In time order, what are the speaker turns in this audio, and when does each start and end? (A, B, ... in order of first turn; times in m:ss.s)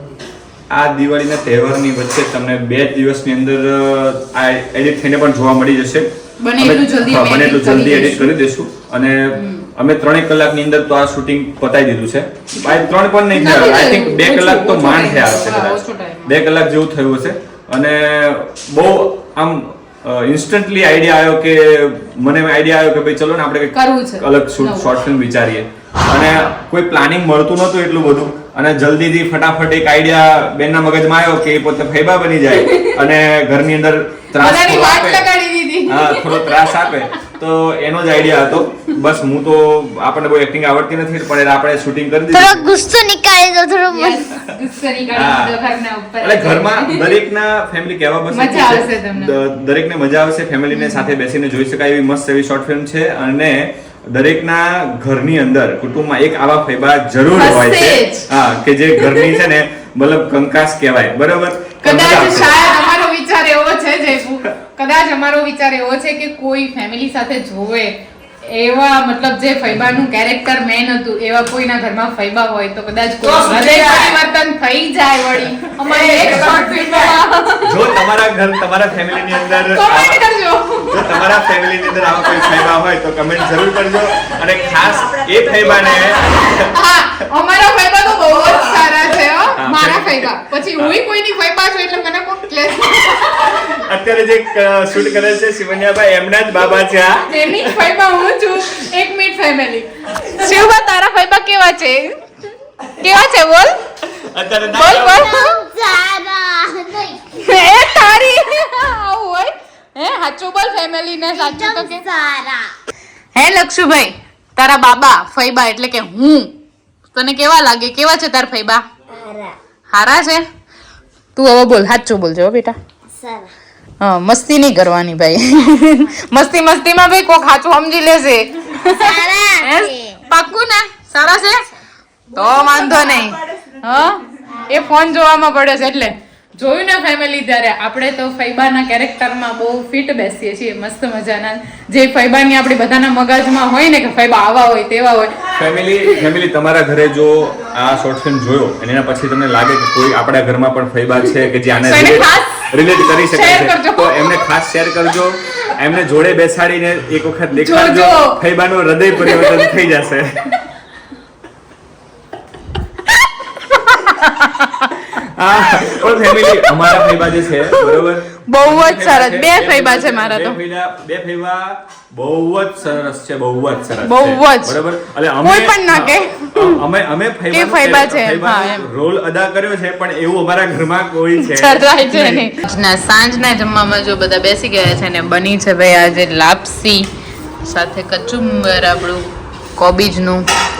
0:00.7-0:35.3 A
0:06.4-0:08.3 B
0:09.3-0:09.6 B
0:13.3-0:16.4 B
0:23.7-0:24.9 B
0:32.5-0:33.0 B
0:34.4-0:36.9 B
0:35.8-0:42.6 A
0:42.3-0:44.3 C
0:43.9-0:47.2 B
0:45.1-0:45.6 A
0:46.2-1:02.6 A
0:48.3-0:49.3 B
0:50.7-0:51.1 B
0:57.3-0:58.3 B
0:58.9-0:59.4 B
1:01.8-1:07.9 B
1:08.4-1:18.0 B
1:17.6-1:20.2 A
1:19.6-1:21.4 B
1:20.9-1:26.7 A
1:22.1-1:22.7 B
1:26.5-1:33.7 B
1:29.5-1:31.0 A
1:33.3-1:37.9 A
1:37.3-1:42.2 B
1:42.8-1:43.8 B
1:44.1-1:45.2 A
1:44.7-1:45.6 B
1:44.8-1:47.4 C
1:47.4-1:52.0 B
1:51.3-1:52.7 C
1:53.3-1:56.5 B
1:57.1-1:58.8 B
1:59.1-1:59.6 C
1:59.9-2:00.4 B
2:01.3-2:02.8 B
2:03.1-2:03.5 C
2:04.0-2:11.7 B
2:08.8-2:10.2 C
2:12.3-2:26.2 B
2:25.5-2:40.4 A
2:31.7-2:34.5 B
2:37.5-2:38.4 B
2:39.1-2:39.7 B
2:43.1-2:45.0 B
2:45.0-3:02.5 A
2:45.7-2:50.6 B
2:54.0-2:54.8 B
2:55.4-2:56.8 B
2:57.5-2:58.9 B
3:01.4-3:07.1 B
3:07.6-3:09.2 B
3:09.8-3:10.4 B